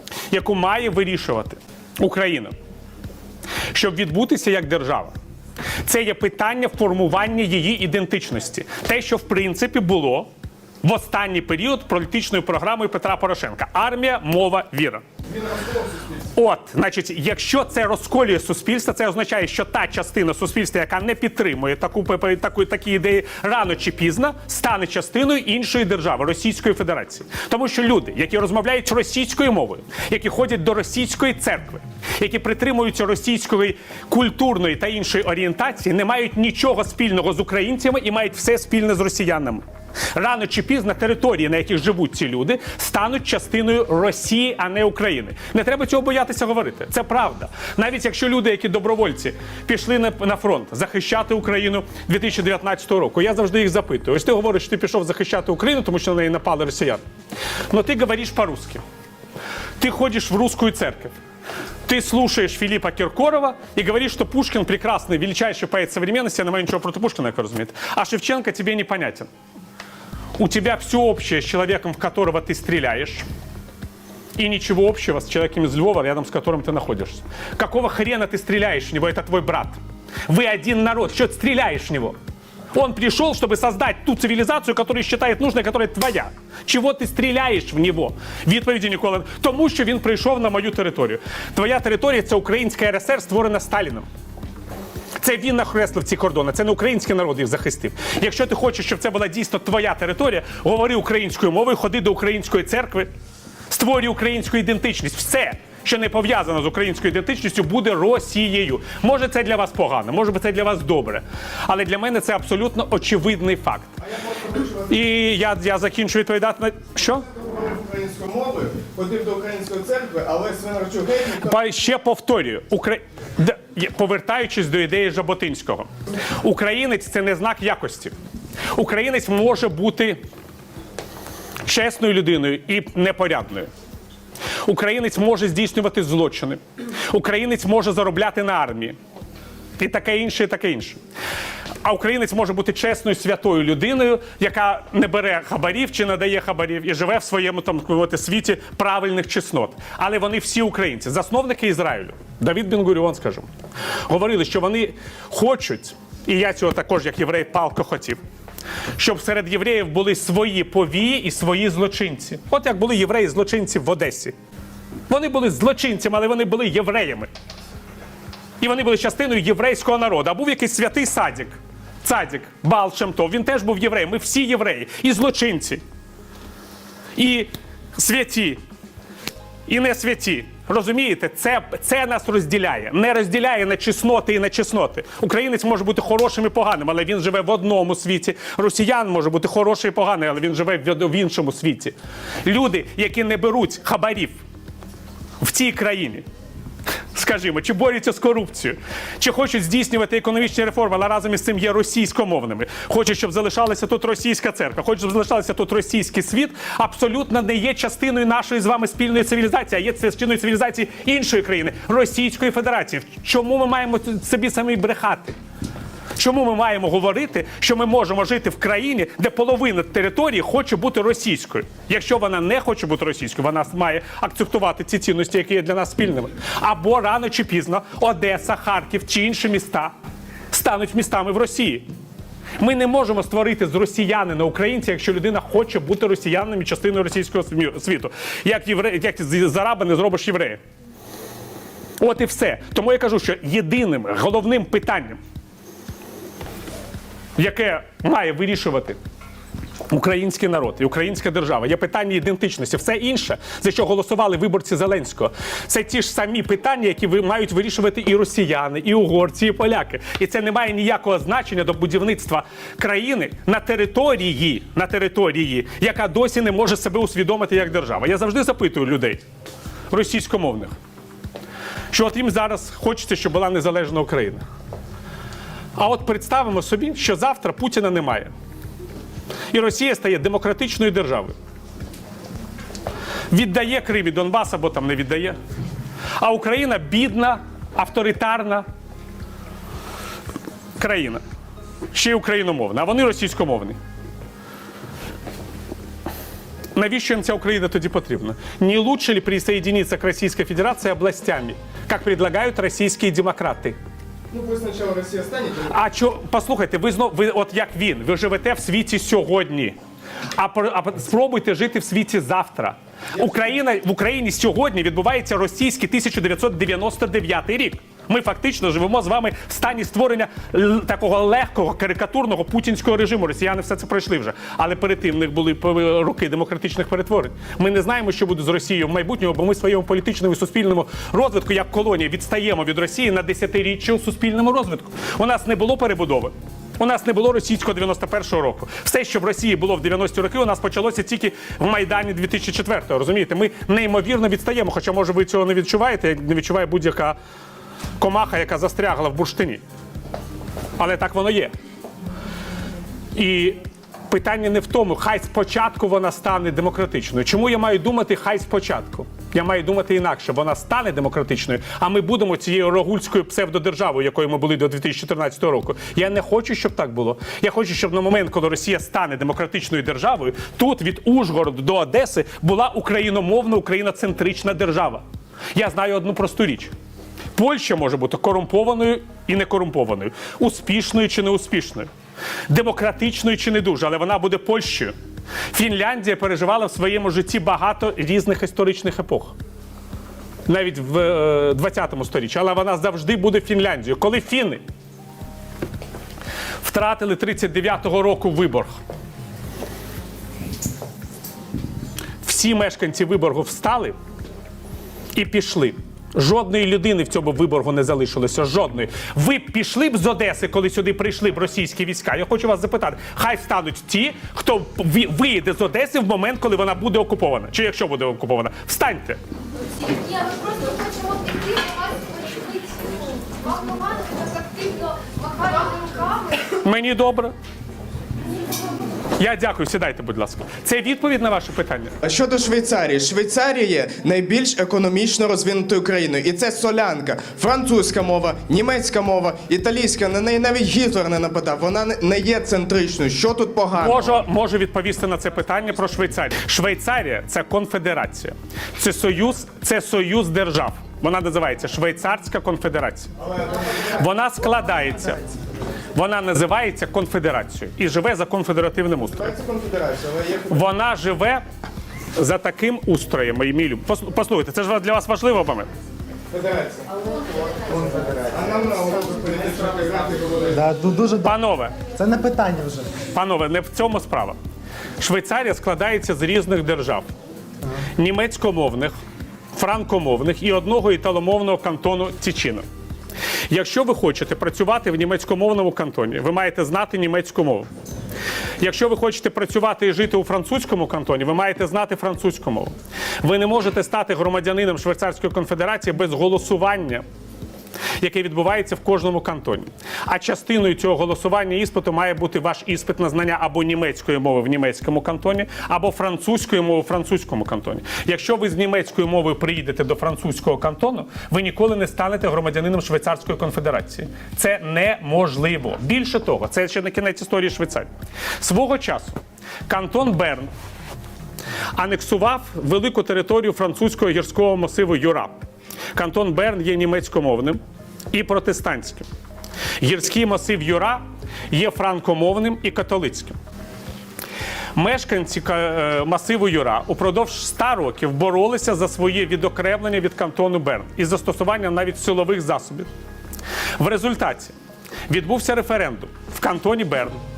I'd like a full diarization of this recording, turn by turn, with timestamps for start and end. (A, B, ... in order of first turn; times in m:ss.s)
0:00.3-0:02.5 A
0:03.7-0:05.1 A
0:05.8-0:10.3 A
0:10.8-0:15.0 A
0:15.4-0:16.0 B
0:16.3-0:39.6 A
0:40.1-0:57.0 A
0:57.7-0:58.8 A
0:59.8-1:01.2 A
1:01.8-1:09.3 A
1:10.4-1:13.2 A
1:14.4-1:22.2 A
1:22.7-1:34.0 A
1:35.2-1:43.1 A
1:43.7-1:53.9 A
1:54.2-1:54.8 B
1:54.7-1:57.3 A
1:57.3-2:01.6 B
2:01.4-2:08.1 A
2:08.7-2:10.2 A
2:11.6-2:13.7 A
2:14.6-2:19.0 A
2:19.8-2:21.0 A
2:21.8-2:33.5 A
2:34.1-2:38.2 A
2:39.0-2:44.3 A
2:45.1-2:47.3 A
2:48.6-2:55.8 A
2:57.2-2:58.6 A
2:59.7-3:14.4 A
3:15.4-3:16.2 A
3:17.1-3:35.4 A
3:36.2-3:49.9 A
3:50.5-3:51.8 A
3:52.6-4:00.6 A
4:02.0-4:05.2 A
4:07.4-4:09.0 A
4:09.9-4:29.2 A
4:29.9-4:30.7 A
4:31.9-4:34.4 A
4:35.8-4:38.3 A
4:39.5-4:41.3 A
4:43.3-4:45.4 A
4:46.2-4:48.6 A
4:50.8-4:51.2 A
4:51.9-4:53.8 A
4:56.7-5:03.8 A
5:04.3-5:05.7 B
5:05.6-5:09.8 A
5:10.4-5:47.2 A
5:48.0-5:49.6 A
5:50.8-5:51.5 A
5:53.1-6:16.7 A
6:17.4-6:21.9 A
6:22.5-6:24.9 A
6:25.5-6:29.3 A
6:30.5-6:34.6 A
6:36.6-6:38.8 A
6:42.2-6:43.9 A
6:45.1-6:59.2 A
7:00.0-7:06.2 C
7:06.5-7:07.3 A
7:09.2-7:12.0 A
7:12.0-7:24.0 B
7:23.8-7:33.1 A
7:33.7-7:35.4 A
7:35.9-7:39.3 A
7:39.3-7:40.6 B
7:40.5-7:41.4 A
7:42.2-7:45.7 A
7:46.3-7:46.8 B
7:47.7-7:48.1 D
7:48.0-7:50.8 B
7:50.7-7:51.2 D
7:51.2-7:51.8 A
7:52.0-7:52.9 D
7:53.1-7:54.4 A
7:55.0-7:57.0 A
7:58.0-7:58.9 A
7:59.5-8:02.6 A
8:03.5-8:07.7 A
8:08.6-8:17.0 A
8:18.0-8:37.9 A
8:38.4-8:40.5 A
8:41.7-8:45.3 A
8:45.9-8:47.6 A
8:48.1-8:49.0 A
8:49.8-8:53.4 A
8:54.7-9:02.9 A
9:03.8-9:04.5 A
9:05.1-9:07.2 A